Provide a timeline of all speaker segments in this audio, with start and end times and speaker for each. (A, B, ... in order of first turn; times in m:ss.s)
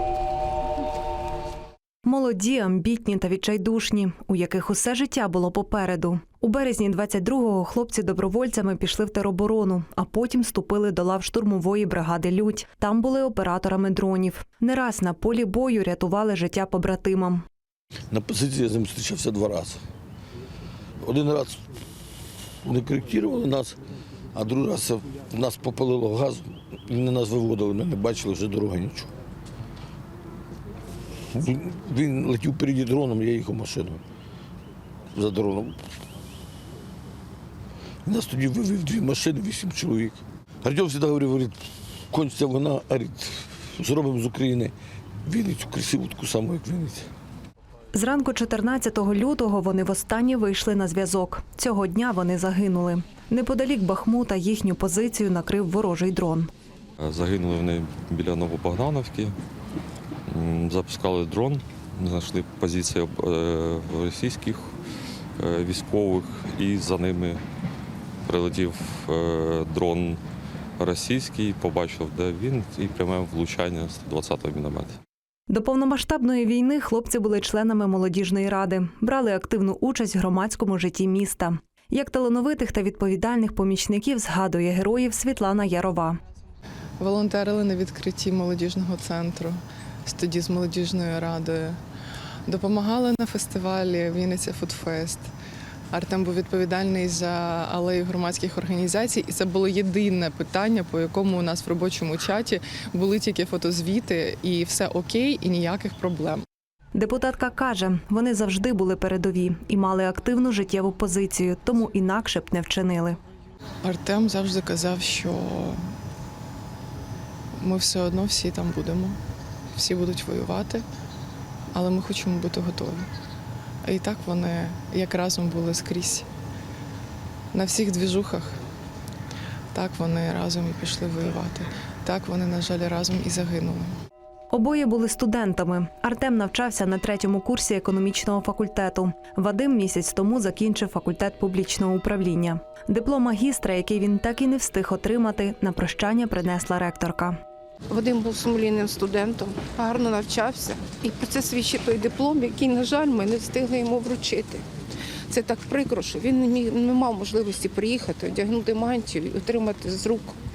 0:02.0-0:17.4 A
0:18.1-0:19.8 B
0:21.0-0:21.6 B
0:22.6-0:23.8 B
0:24.3-0:29.1 B
0:31.3-0:34.0 B
0:35.1-0:35.8 B
0:38.0-0:44.7 B
0:45.3-0:47.1 B
0:47.9-0:56.5 A
0:57.0-0:59.4 C
1:00.3-1:04.8 C
1:05.4-1:07.4 C
1:08.3-1:10.2 C
1:10.8-1:15.0 C
1:15.5-1:26.2 A
1:27.0-1:31.8 D
1:32.5-1:35.3 D
1:35.9-1:46.5 D
1:47.0-1:53.2 A
1:53.8-1:55.8 D
1:57.6-1:59.2 D
1:59.8-2:00.9 D
2:01.7-2:03.1 D
2:03.8-2:06.3 D
2:07.5-2:08.6 D
2:09.7-2:13.9 D
2:14.5-2:27.4 A
2:27.9-2:34.6 E
2:35.3-2:40.4 E